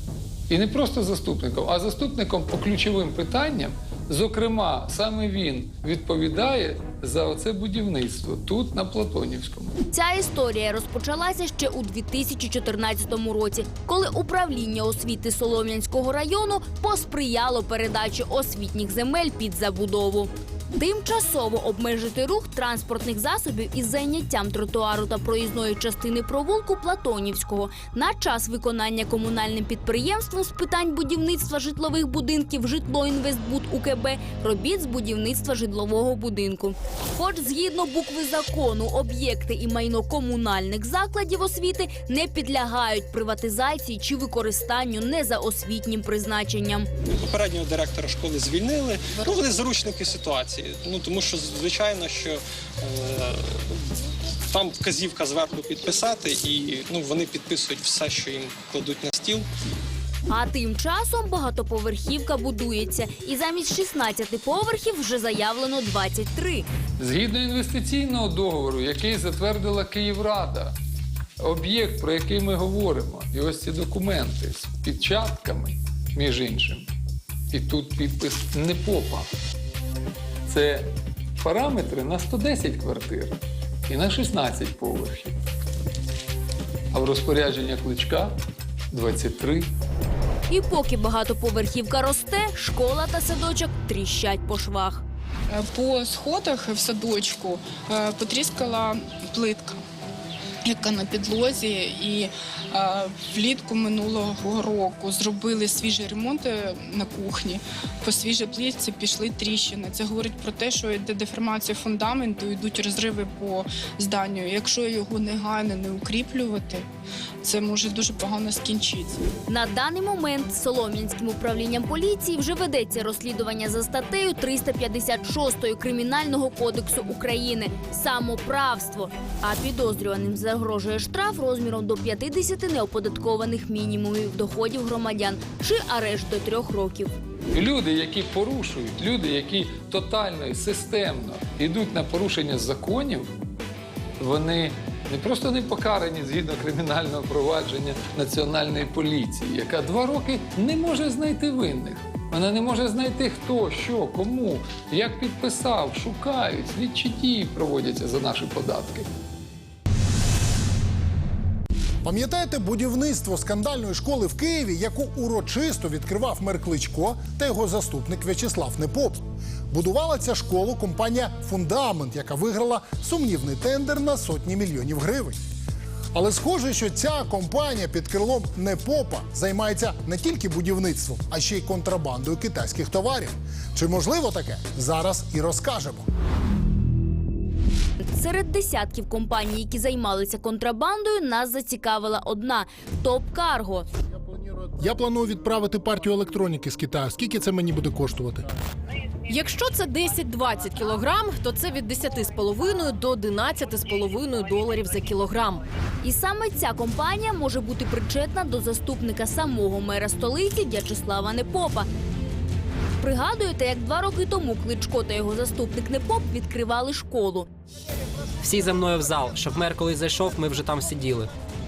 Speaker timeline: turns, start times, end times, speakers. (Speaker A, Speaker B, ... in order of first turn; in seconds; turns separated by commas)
Speaker A: 0.5-9.8, Speaker B: 9.9-46.9, Speaker C: 47.1-53.8, Speaker C: 54.5-59.5, Speaker B: 60.3-66.7, Speaker A: 67.0-70.8, Speaker A: 71.4-76.9, Speaker A: 77.5-79.3, Speaker A: 80.5-85.3, Speaker A: 86.9-88.3, Speaker A: 88.9-89.7, Speaker B: 90.5-95.0, Speaker D: 95.5-99.8, Speaker D: 100.7-116.9, Speaker D: 117.4-119.2, Speaker B: 119.5-137.1, Speaker A: 137.5-143.3, Speaker A: 144.2-159.1, Speaker E: 162.0-175.4, Speaker E: 176.1-186.1, Speaker B: 188.1-193.8, Speaker E: 194.2-198.4, Speaker F: 199.3-205.6, Speaker B: 206.0-211.9, Speaker B: 213.0-217.5, Speaker G: 218.4-221.3